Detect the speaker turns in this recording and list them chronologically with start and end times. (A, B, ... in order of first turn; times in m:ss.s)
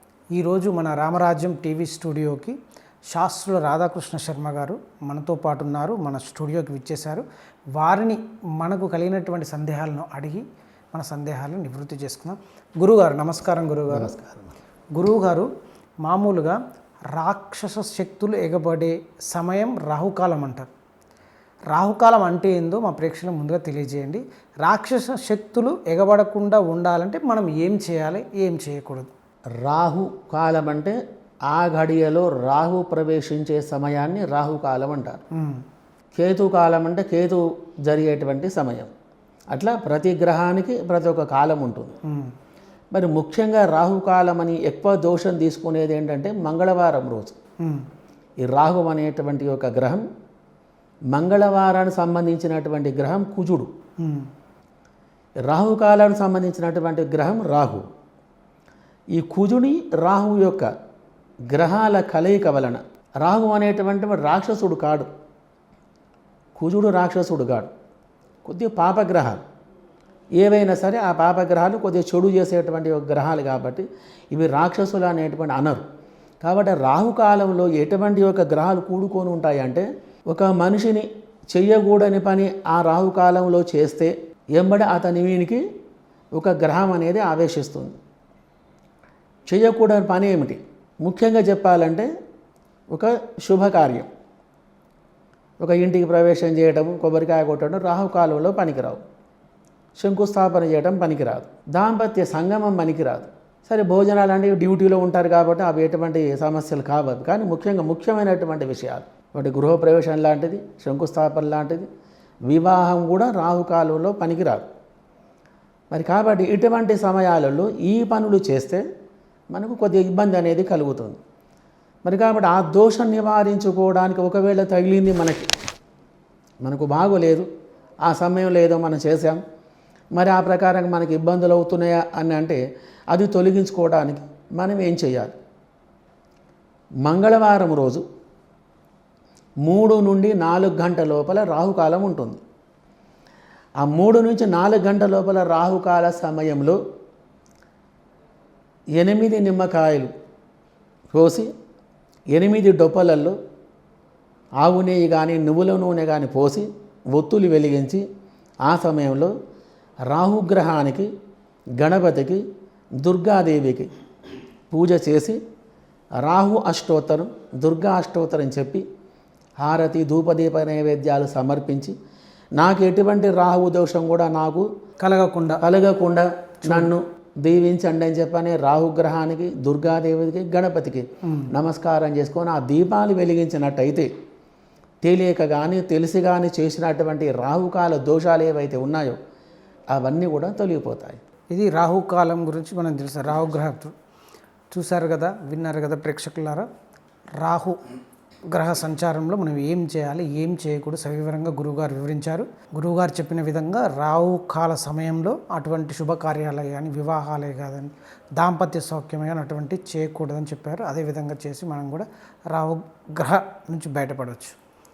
0:00.3-0:02.6 A
0:03.1-0:07.2 A
0:07.8-0:14.2 A
0:13.9-0:14.5 B
0:14.9-0:15.5 A
0:16.0-0:16.6 A
0:17.1-0:20.7 A
0:21.7-0:29.1 A
0:29.6-0:31.0 B
0:31.5-0:35.2 B
0:35.4-0:35.6 A
0:36.2-0:38.9 B
0:39.5-0:42.0 B
0:42.1-0:42.3 A
0:42.9-0:47.4 B
0:48.4-0:50.0 B
0:51.1-0:53.7 B
0:54.0-0:54.3 A
0:55.4-0:57.8 B
0:59.1-1:00.7 B
1:01.5-1:05.1 B
1:06.6-1:07.7 B
1:08.4-1:09.4 B
1:10.4-1:15.8 B
1:16.4-1:25.6 B
1:26.4-1:28.0 B
1:29.5-1:32.1 B
1:32.9-1:34.1 B
1:35.6-1:39.0 B
1:40.0-1:51.9 B
1:52.5-1:54.7 B
1:55.9-1:58.8 B
1:59.5-2:01.2 B
2:02.0-2:05.5 B
2:06.6-2:07.5 B
2:08.0-2:09.4 B
2:10.1-2:12.6 B
2:13.1-2:15.3 B
2:17.0-2:18.0 B
2:19.6-2:22.4 B
2:23.8-2:26.8 B
2:29.0-2:30.1 B
2:31.1-2:31.5 B
2:32.3-2:33.4 B
2:34.6-2:38.0 B
2:38.6-2:39.3 B
2:40.1-2:41.1 B
2:41.8-2:42.4 B
2:43.0-2:43.9 B
2:44.7-2:45.4 B
2:46.2-2:48.8 B
2:49.6-2:51.9 B
2:52.6-2:54.7 B
2:55.0-2:55.6 A
2:55.6-3:04.1 B
2:56.6-2:56.9 A
3:05.0-3:09.2 B
3:09.9-3:11.2 B
3:11.5-3:13.9 A
3:14.7-3:16.7 A
3:17.4-3:17.8 A
3:18.5-3:34.6 A